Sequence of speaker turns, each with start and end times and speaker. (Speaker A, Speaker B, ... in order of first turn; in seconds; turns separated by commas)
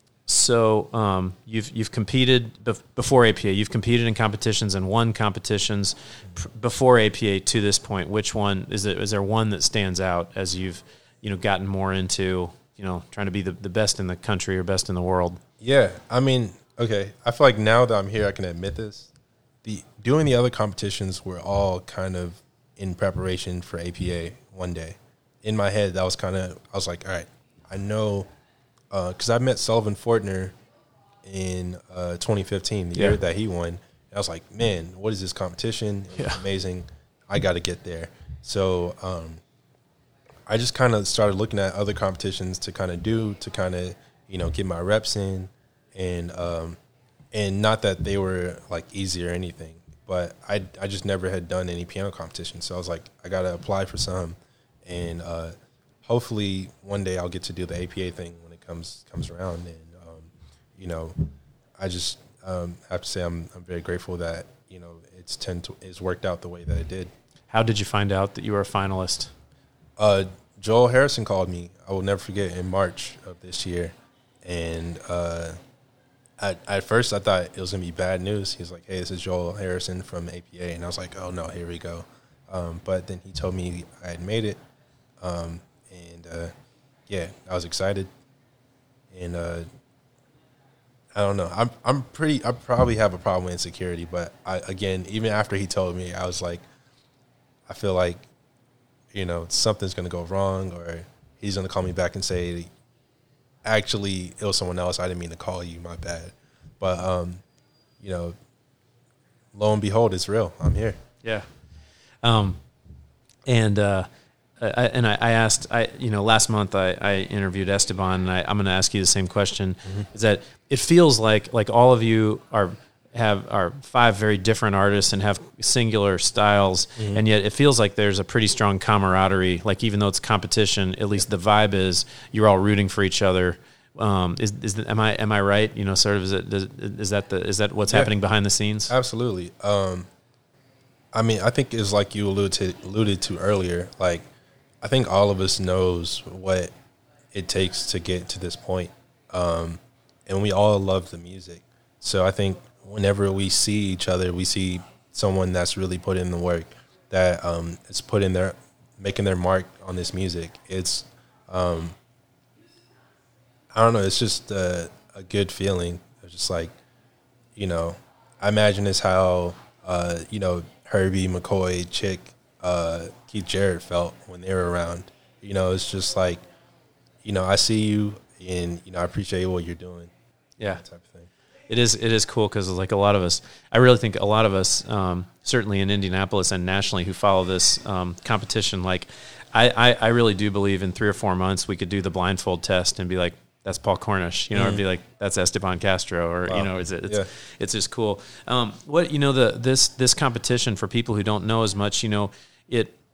Speaker A: 0.3-15.4, Speaker B: 15.6-19.1, Speaker B: 19.6-28.3, Speaker B: 28.9-30.6, Speaker B: 31.2-39.4, Speaker A: 36.2-36.4, Speaker B: 40.5-46.8, Speaker B: 47.3-61.2, Speaker B: 61.8-67.1, Speaker A: 67.5-69.3, Speaker B: 70.0-75.6, Speaker B: 76.4-84.6, Speaker B: 85.2-86.5, Speaker B: 87.1-88.1, Speaker B: 89.1-89.7, Speaker B: 91.1-96.6, Speaker B: 97.7-98.3, Speaker B: 99.1-102.7, Speaker B: 103.6-107.4, Speaker B: 108.0-108.3, Speaker B: 109.5-111.0, Speaker A: 112.2-112.6, Speaker A: 113.5-114.1, Speaker A: 114.6-138.9, Speaker B: 127.0-127.2, Speaker B: 137.9-138.1, Speaker B: 138.9-140.1, Speaker B: 141.1-144.3, Speaker B: 144.8-146.7, Speaker B: 147.3-162.0, Speaker B: 163.7-166.7, Speaker B: 167.6-176.4, Speaker B: 177.2-180.1, Speaker B: 180.7-181.3, Speaker A: 181.7-203.0, Speaker B: 194.5-194.8, Speaker B: 196.5-197.3